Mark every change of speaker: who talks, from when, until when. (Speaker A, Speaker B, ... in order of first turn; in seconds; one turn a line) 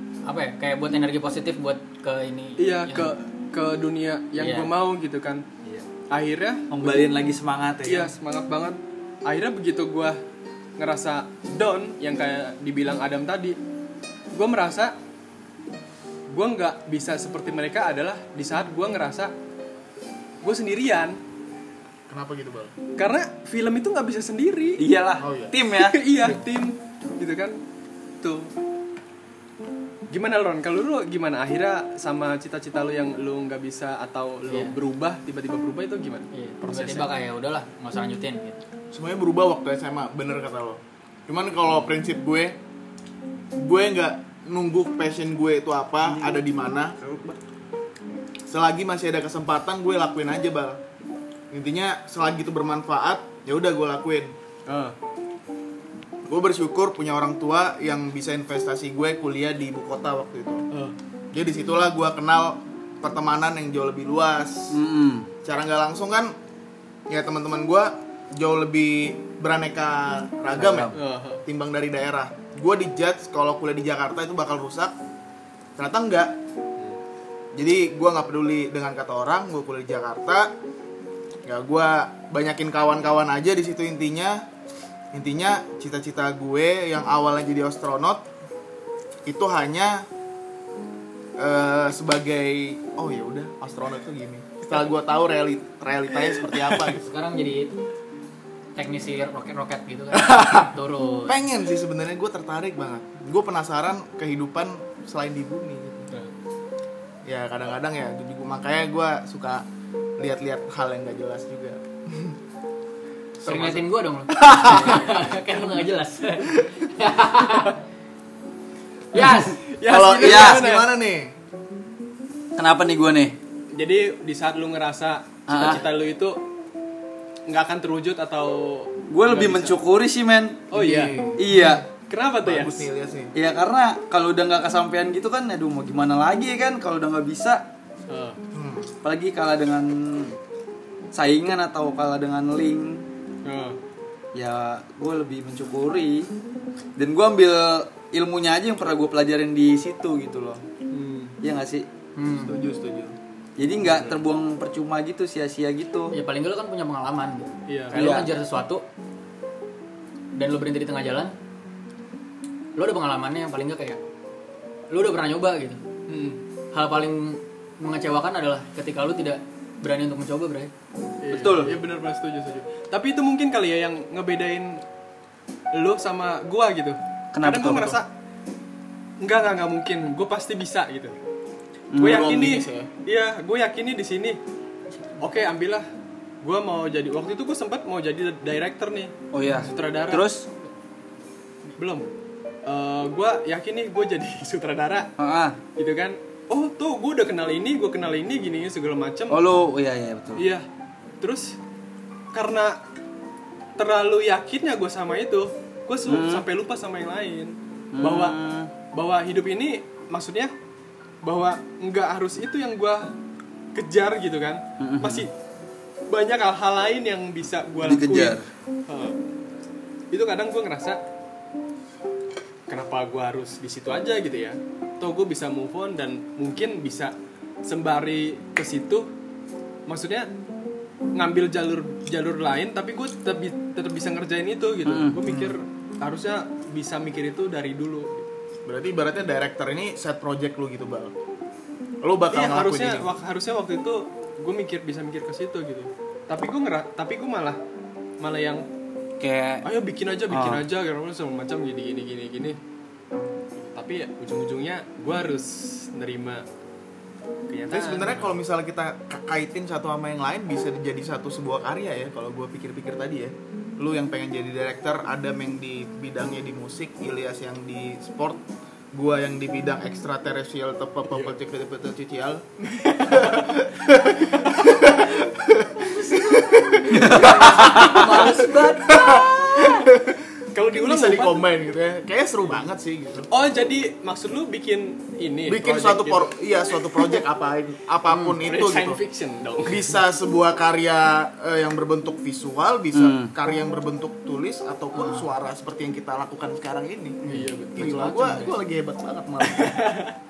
Speaker A: 0.3-3.1
Speaker B: 2.6-5.5
Speaker A: 4.4-4.7
Speaker B: 6.1-7.1
Speaker C: 6.7-8.1
Speaker B: 7.8-10.2
Speaker B: 10.8-13.6
Speaker B: 14.3-14.9
Speaker B: 16.3-19.3
Speaker B: 20.4-21.2
Speaker D: 22.1-22.7
Speaker B: 23.0-24.9
Speaker C: 24.8-26.0
Speaker D: 25.2-25.6
Speaker B: 25.7-27.6
Speaker B: 28.2-28.5
Speaker B: 30.1-37.1
Speaker A: 34.5-34.8
Speaker A: 36.3-38.6
Speaker D: 38.9-42.6
Speaker D: 43.6-47.0
Speaker C: 46.1-46.4
Speaker C: 47.0-47.4
Speaker D: 48.5-50.8
Speaker D: 51.5-54.3
Speaker B: 54.7-55.0
Speaker D: 56.3-60.6
Speaker D: 61.3-64.8
Speaker C: 64.7-65.3
Speaker D: 65.4-66.3
Speaker D: 67.1-75.0
Speaker C: 70.5-70.9
Speaker B: 70.9-71.4
Speaker D: 75.8-76.4
Speaker D: 77.5-80.5
Speaker D: 81.5-84.4
Speaker D: 85.1-88.3
Speaker D: 89.3-90.1
Speaker D: 91.4-97.0
Speaker A: 96.8-97.8
Speaker A: 98.8-101.4
Speaker D: 100.1-100.7
Speaker D: 101.3-106.1
Speaker D: 107.3-109.7
Speaker D: 110.2-112.4
Speaker A: 113.4-117.8
Speaker D: 113.4-113.8
Speaker D: 114.3-115.1
Speaker B: 115.1-115.8
Speaker A: 119.1-119.6
Speaker B: 119.2-120.9
Speaker D: 119.8-121.3
Speaker C: 120.2-120.7
Speaker C: 122.6-123.4
Speaker B: 123.8-126.4
Speaker C: 125.5-125.8
Speaker B: 127.5-129.8
Speaker C: 129.1-131.8
Speaker B: 130.7-132.9
Speaker D: 130.8-131.8
Speaker D: 132.4-133.3
Speaker C: 133.3-137.7
Speaker B: 138.1-138.4
Speaker D: 138.5-138.9
Speaker C: 139.0-140.4
Speaker C: 141.1-143.1
Speaker B: 143.4-143.8
Speaker C: 144.3-146.3
Speaker C: 147.0-150.6
Speaker B: 150.9-151.4
Speaker C: 151.4-151.9
Speaker A: 152.2-152.6
Speaker B: 152.4-153.1
Speaker C: 153.6-156.1
Speaker B: 153.8-154.2
Speaker A: 156.1-158.8
Speaker B: 157.7-158.1
Speaker C: 157.9-158.3
Speaker A: 160.4-161.3
Speaker A: 162.8-164.0
Speaker A: 164.9-165.8
Speaker B: 166.1-166.4
Speaker A: 166.7-170.7
Speaker B: 171.2-174.8
Speaker C: 171.3-171.8
Speaker B: 175.7-178.1
Speaker C: 177.3-178.0
Speaker B: 179.2-181.1
Speaker C: 181.9-182.6
Speaker B: 182.0-184.4
Speaker D: 182.0-182.9
Speaker B: 185.2-185.9
Speaker B: 186.4-190.3
Speaker C: 189.3-190.5
Speaker B: 191.8-192.1
Speaker B: 192.7-195.1
Speaker C: 195.2-195.6
Speaker B: 195.8-199.5
Speaker C: 199.3-200.5
Speaker B: 200.4-200.7
Speaker B: 201.2-201.6
Speaker B: 202.3-202.8
Speaker B: 203.8-208.4
Speaker C: 206.1-206.4
Speaker C: 207.9-208.7
Speaker B: 208.9-210.5
Speaker B: 211.2-213.1
Speaker B: 213.8-215.3
Speaker C: 214.8-215.3
Speaker B: 216.1-219.2
Speaker C: 217.8-218.5
Speaker B: 220.1-221.0
Speaker B: 222.7-227.1
Speaker B: 227.7-229.1
Speaker B: 229.9-230.3
Speaker B: 231.2-238.3
Speaker C: 234.8-235.6
Speaker D: 238.7-241.2
Speaker D: 242.0-243.1
Speaker B: 242.3-247.6
Speaker B: 248.2-248.7
Speaker C: 249.2-249.7
Speaker B: 249.6-252.6
Speaker C: 250.3-250.6
Speaker B: 253.6-256.4
Speaker B: 257.5-258.4
Speaker D: 257.7-272.5
Speaker B: 272.7-273.6
Speaker D: 273.0-283.3
Speaker A: 275.9-279.6
Speaker C: 276.9-278.1
Speaker B: 280.5-281.5
Speaker B: 283.3-287.2
Speaker D: 285.5-289.0
Speaker A: 288.1-288.4
Speaker B: 288.4-289.9
Speaker D: 289.6-297.2
Speaker C: 292.9-293.3
Speaker A: 294.9-295.2
Speaker A: 297.2-298.6
Speaker B: 297.3-298.0
Speaker D: 297.7-299.8
Speaker B: 299.4-300.2